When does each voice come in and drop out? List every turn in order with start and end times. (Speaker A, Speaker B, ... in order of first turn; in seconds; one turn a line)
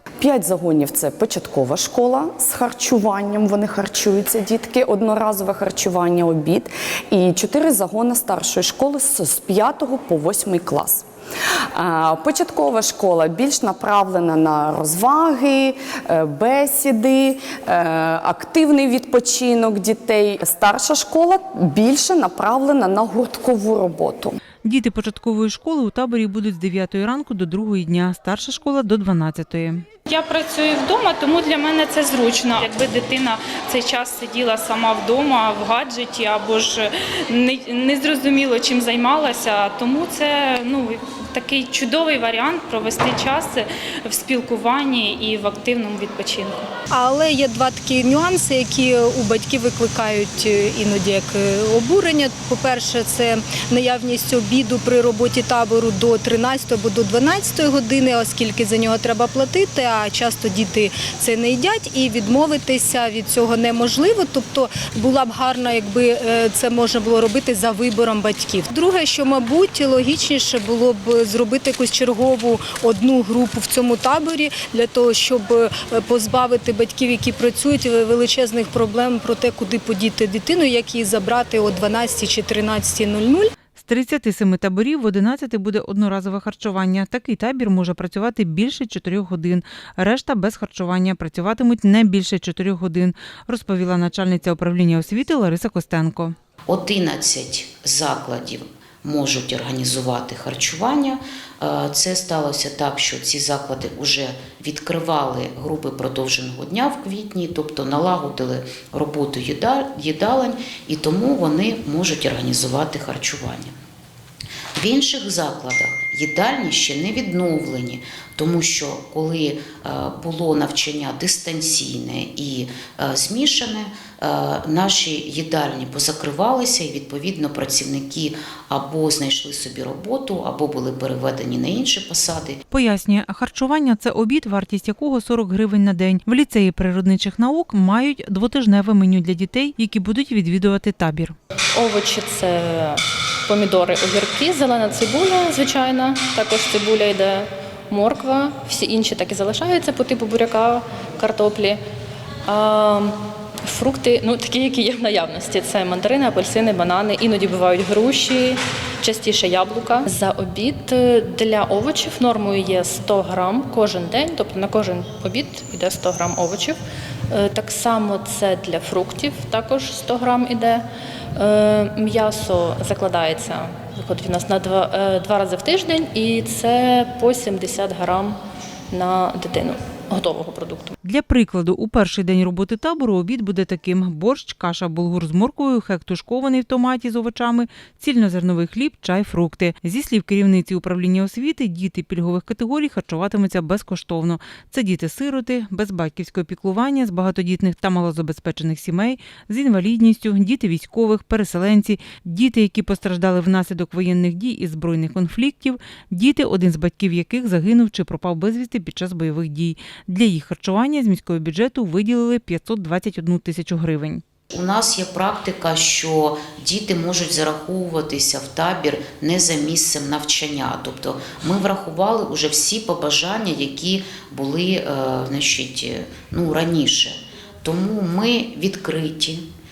Speaker A: 0.2-11.1
Speaker A: 11.7-24.4
Speaker B: 24.6-29.9
Speaker C: 30.1-46.6
Speaker D: 46.9-83.5
Speaker B: 83.8-96.3
Speaker E: 96.7-113.7
Speaker E: 114.8-132.6
Speaker B: 132.7-141.3
Speaker F: 141.7-151.8
Speaker F: 152.5-166.8
Speaker F: 167.3-178.4
Speaker F: 178.9-181.0
Speaker B: 181.0-214.2
Speaker E: 214.5-229.4